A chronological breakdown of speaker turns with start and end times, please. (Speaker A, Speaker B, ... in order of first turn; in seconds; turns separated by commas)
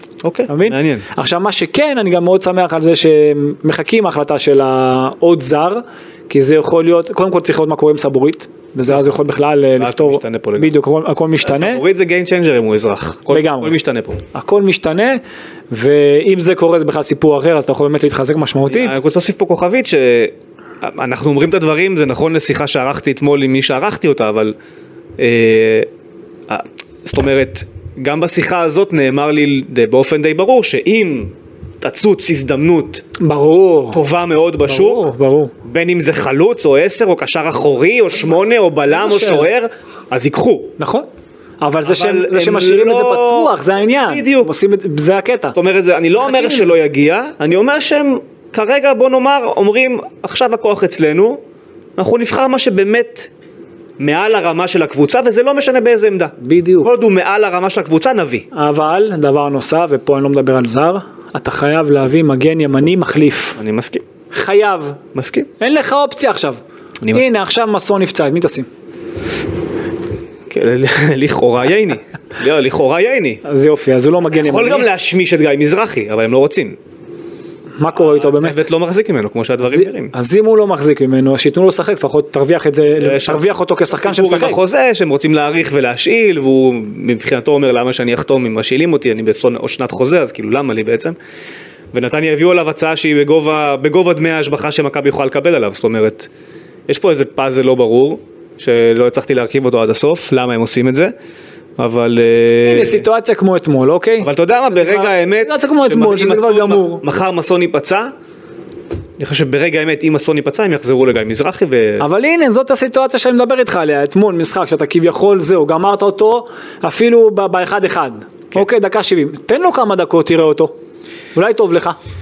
Speaker A: 0.2-1.1, Speaker B: 0.5-11.8, Speaker A: 9.8-10.7, Speaker A: 11.4-14.2, Speaker B: 13.3-13.8, Speaker B: 14.3-19.0, Speaker A: 18.7-24.6, Speaker A: 25.2-25.9, Speaker A: 26.5-33.0, Speaker B: 33.2-34.0, Speaker A: 33.9-35.1, Speaker B: 34.7-35.5, Speaker A: 35.6-40.8, Speaker B: 38.9-39.5, Speaker B: 40.8-41.1, Speaker B: 41.6-45.6, Speaker A: 41.8-44.5, Speaker A: 45.5-51.4, Speaker B: 46.2-46.7, Speaker A: 52.0-53.3, Speaker A: 54.0-58.5, Speaker B: 56.4-56.9, Speaker B: 58.5-63.6, Speaker A: 63.6-64.0, Speaker B: 64.3-65.0, Speaker A: 65.2-65.5, Speaker B: 65.6-66.6, Speaker B: 67.1-68.7, Speaker A: 70.5-73.4, Speaker B: 73.4-74.9, Speaker A: 74.3-76.8, Speaker B: 77.8-78.7, Speaker A: 77.9-80.1, Speaker B: 79.6-84.6, Speaker A: 83.0-91.2, Speaker A: 91.9-96.3, Speaker A: 96.9-101.1, Speaker A: 101.8-103.1, Speaker B: 102.7-107.0, Speaker A: 104.2-108.1, Speaker A: 109.2-112.0, Speaker B: 112.0-120.7, Speaker B: 121.3-122.0